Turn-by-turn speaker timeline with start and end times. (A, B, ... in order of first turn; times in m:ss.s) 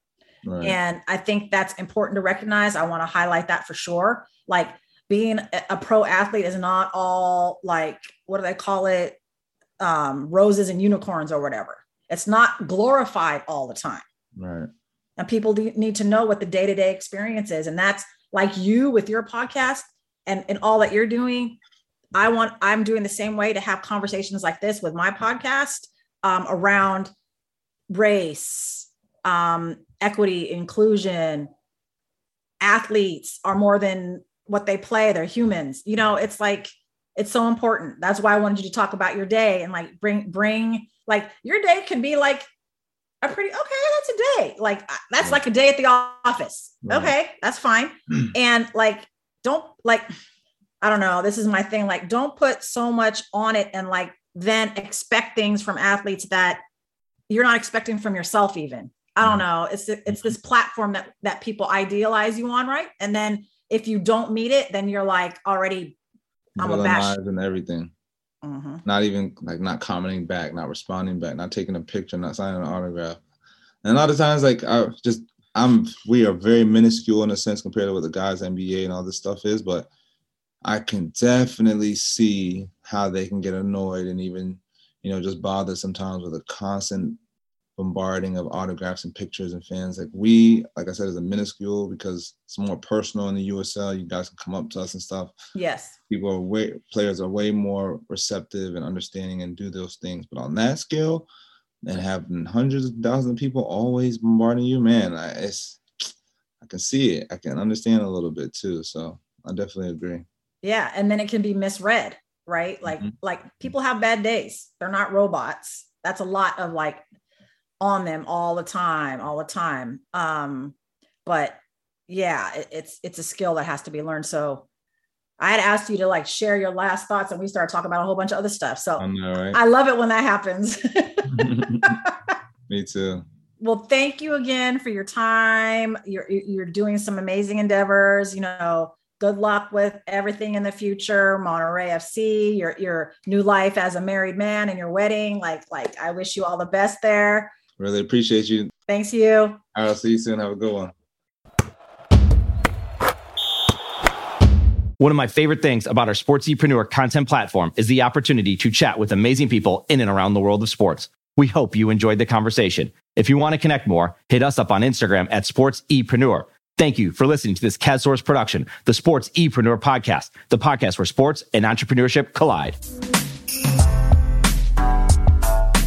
0:00.4-0:00.8 A
0:00.6-0:09.2 B
0:09.8-0:14.0 B
0:14.4-0:14.7 A
0:15.2-0:21.6 B
0:22.2-0:27.1 B
0:27.9-0:31.5 B
0:32.6-0:42.5 B
0:43.2-0:50.0 B
0:46.9-0:47.2 A
0:50.8-0:56.6 B
0:57.3-1:06.0 B
1:06.6-1:07.9 A
1:06.6-1:07.2 B
1:08.4-1:08.8 B
1:08.8-1:13.2 A
1:13.8-1:19.9 A
1:20.6-1:27.2 A
1:27.8-1:35.4 A
1:35.6-1:36.0 B
1:36.1-1:41.3 A
1:41.8-1:46.1 A
1:46.6-1:50.3 A
1:50.6-1:57.0 B
1:57.8-2:01.6 B
2:02.1-2:04.6 B
2:05.4-2:12.3 B
2:09.0-2:09.6 A
2:11.3-2:12.0 A
2:12.7-2:13.2 A
2:13.6-2:27.5 B
2:27.8-2:28.7 A
2:28.9-2:29.6 B
2:29.7-2:30.9 A
2:35.0-2:52.8 C